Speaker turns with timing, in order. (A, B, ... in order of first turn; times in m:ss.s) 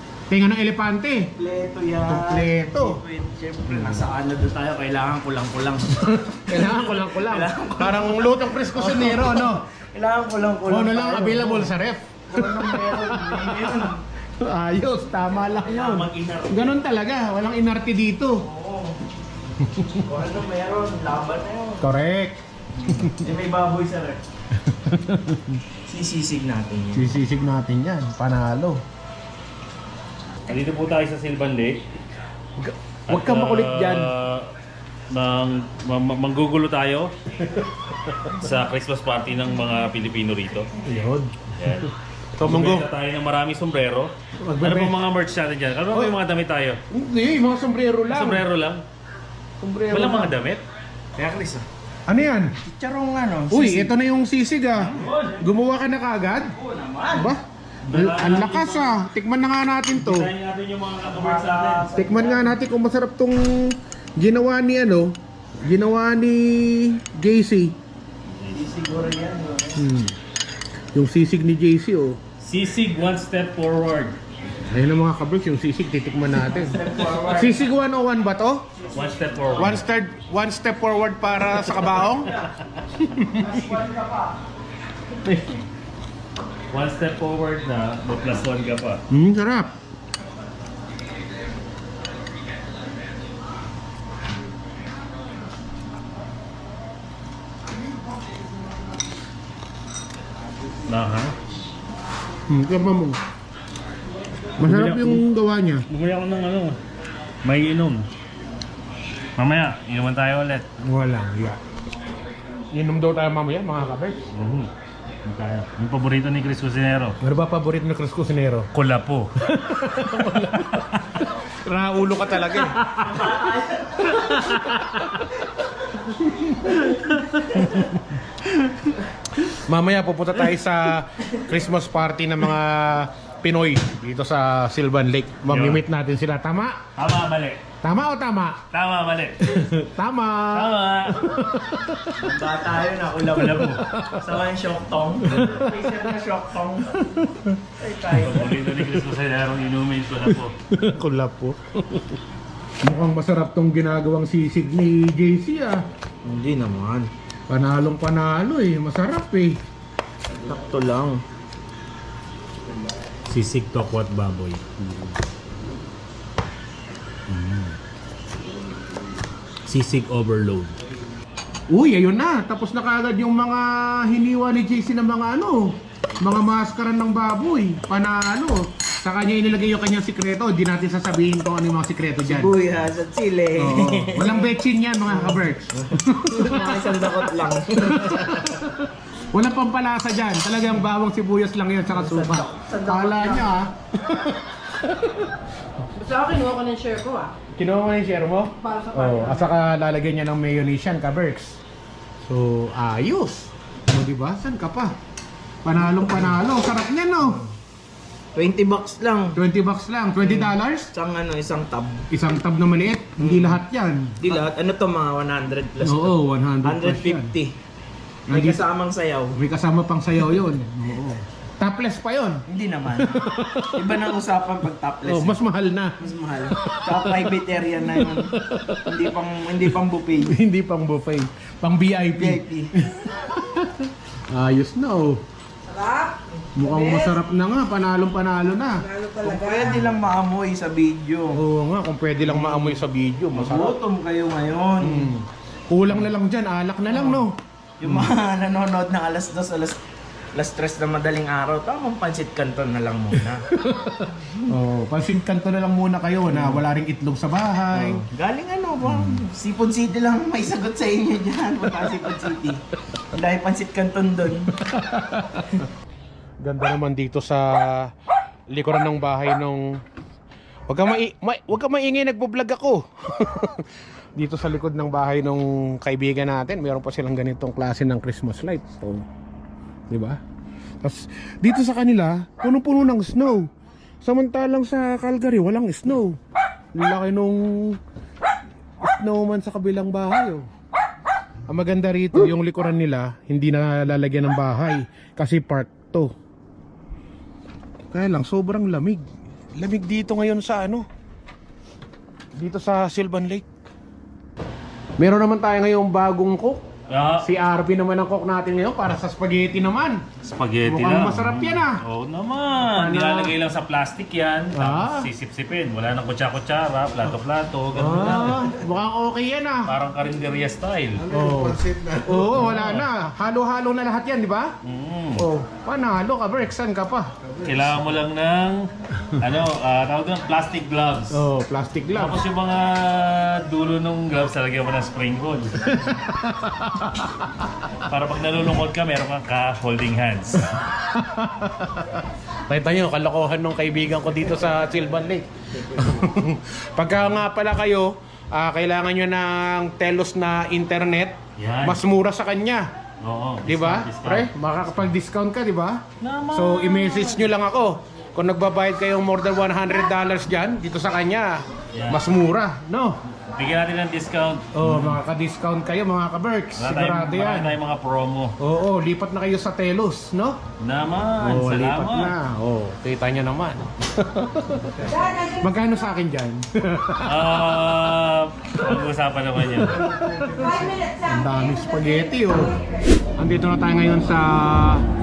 0:00.3-0:01.3 A
0:01.4-0:11.7 B
0:02.0-0:03.0 A
0:06.1-0:09.6 A
0:10.7-0:13.8 A
0:12.3-0:14.0 B
0:14.4-0:18.4 A
0:15.6-0:16.8 B
0:18.4-0:19.0 B
0:19.6-0:20.0 A
0:20.0-0:21.9 B
0:21.8-0:22.4 A
0:22.8-0:24.2 B
0:22.9-0:23.2 A
0:24.6-0:25.6 A
0:25.8-0:27.1 B
0:26.9-0:28.8 A
0:30.5-0:31.8 C
0:32.6-0:34.1 A
0:33.1-0:34.5 C
0:35.1-0:40.7 C
0:40.8-0:41.8 A
0:41.6-0:46.8 C
0:42.4-0:42.9 A
0:44.4-0:45.0 A
0:46.9-0:48.4 A
0:48.1-0:48.8 C
0:49.6-0:50.3 A
0:49.9-0:50.6 C
0:51.2-0:51.7 B
0:52.1-0:52.5 A
0:52.6-0:54.0 B
0:53.5-0:56.6 A
0:54.8-0:55.3 B
0:54.9-0:55.4 C
0:56.6-0:57.3 B
0:57.1-1:00.3 A
0:57.9-0:59.0 C
1:00.0-1:01.9 C
1:01.0-1:02.5 B
1:02.0-1:07.8 A
1:08.3-1:08.7 C
1:08.5-1:09.8 B
1:09.8-1:10.2 A
1:10.9-1:12.2 A
1:12.4-1:14.2 C
1:14.7-1:18.6 A
1:16.4-1:17.6 B
1:18.8-1:19.8 B
1:18.9-1:19.8 C
1:19.6-1:22.4 A
1:21.6-1:22.5 B
1:23.0-1:23.4 A
1:23.3-1:24.4 B
1:25.2-1:25.6 C
1:26.7-1:29.0 C
1:29.1-1:29.7 A
1:40.9-1:41.4 C
1:42.5-1:43.2 A
1:44.6-1:45.2 C
1:44.6-1:45.9 A
1:45.9-1:46.8 C
1:47.4-1:48.1 C
1:49.4-1:50.7 C
1:50.8-1:51.6 A
1:52.7-1:54.2 A
1:54.3-1:54.7 C
1:55.3-1:57.2 C
1:57.2-1:58.7 A
1:58.7-1:59.4 C
1:59.4-2:03.1 A
2:02.6-2:04.6 B
2:04.5-2:05.2 C
2:06.0-2:07.9 A
2:09.4-2:16.8 A
2:15.5-2:15.8 C
2:17.0-2:17.6 C
2:17.8-2:18.6 A
2:18.7-2:19.7 C
2:19.4-2:22.2 A
2:20.5-2:21.3 C
2:22.2-2:27.0 B
2:23.3-2:23.8 C
2:23.8-2:24.2 A
2:25.2-2:25.7 A
2:27.0-2:27.6 A
2:27.8-2:28.7 B
2:28.1-2:30.6 C
2:30.7-2:32.0 A
2:32.8-2:35.8 A
2:36.2-2:37.1 B
2:37.5-2:39.6 A
2:40.4-2:41.2 B
2:43.3-2:45.2 C
2:47.3-2:47.8 C
2:49.7-2:50.8 C
2:51.7-3:02.5 A
3:02.2-3:04.5 B
3:03.6-3:07.3 A
3:05.1-3:08.6 B
3:07.8-3:15.3 A
3:11.9-3:13.5 B
3:16.0-3:17.3 D
3:17.6-3:21.6 A
3:18.6-3:19.4 D
3:22.2-3:25.0 A
3:25.6-3:27.4 A
3:28.3-3:29.4 B
3:29.4-3:30.9 A
3:30.2-3:32.1 B
3:32.1-3:34.2 A
3:33.2-3:33.6 B
3:34.2-3:37.6 B
3:35.8-3:37.3 A
3:38.3-3:38.6 A
3:38.3-3:39.4 B
3:39.3-3:42.4 A
3:42.5-3:45.4 B
3:43.0-3:43.8 A
3:45.0-3:46.0 A
3:46.0-3:48.3 B
3:46.5-3:47.2 A
3:47.9-3:48.9 A
3:48.8-3:50.4 B
3:50.2-3:55.2 A
3:52.1-3:52.7 B
3:56.6-3:58.8 A
3:58.9-4:01.4 B
3:59.0-3:59.5 D
4:01.3-4:03.8 A
4:02.2-4:05.1 B
4:04.8-4:07.3 A
4:06.9-4:07.2 B
4:07.8-4:09.8 B
4:10.3-4:13.5 B
4:13.5-4:18.0 A
4:14.1-4:14.5 B
4:16.3-4:16.6 B
4:17.7-4:24.5 B
4:18.9-4:19.2 A
4:24.6-4:25.5 A
4:26.4-4:27.9 A
4:28.5-4:29.7 A
4:30.7-4:33.6 A
4:34.2-4:39.1 A
4:39.9-4:40.2 A
4:40.8-4:43.5 A
4:44.0-4:46.2 A
4:46.8-4:47.8 A
4:48.8-4:50.4 A
4:51.5-4:56.1 A
4:57.9-4:59.0 A
4:59.6-5:00.8 A
5:02.4-5:03.5 A
5:05.0-5:06.6 A
5:06.9-5:07.3 C
5:07.2-5:10.0 A
5:10.2-5:18.5 C
5:10.6-5:11.8 A
5:12.6-5:13.3 A
5:14.6-5:15.1 A
5:17.8-5:19.7 A
5:19.7-5:21.1 C
5:21.1-5:24.5 A
5:21.1-5:21.4 B
5:22.3-5:22.9 C
5:24.6-5:25.2 C
5:25.2-5:27.1 A
5:27.4-5:31.2 C
5:31.1-5:32.2 A
5:31.9-5:35.7 C
5:35.6-5:37.5 A
5:37.8-5:40.6 C
5:40.5-5:52.7 A
5:51.4-5:51.8 C
5:53.0-5:54.3 C
5:53.4-6:03.0 A
5:56.0-5:57.3 C
6:01.7-6:02.0 C
6:03.3-6:05.0 C
6:04.5-6:07.6 A
6:06.6-6:08.4 C
6:08.4-6:10.4 A
6:10.6-6:12.1 C
6:11.2-6:17.2 A
6:17.1-6:19.8 C
6:19.6-6:22.6 A
6:23.2-6:24.8 A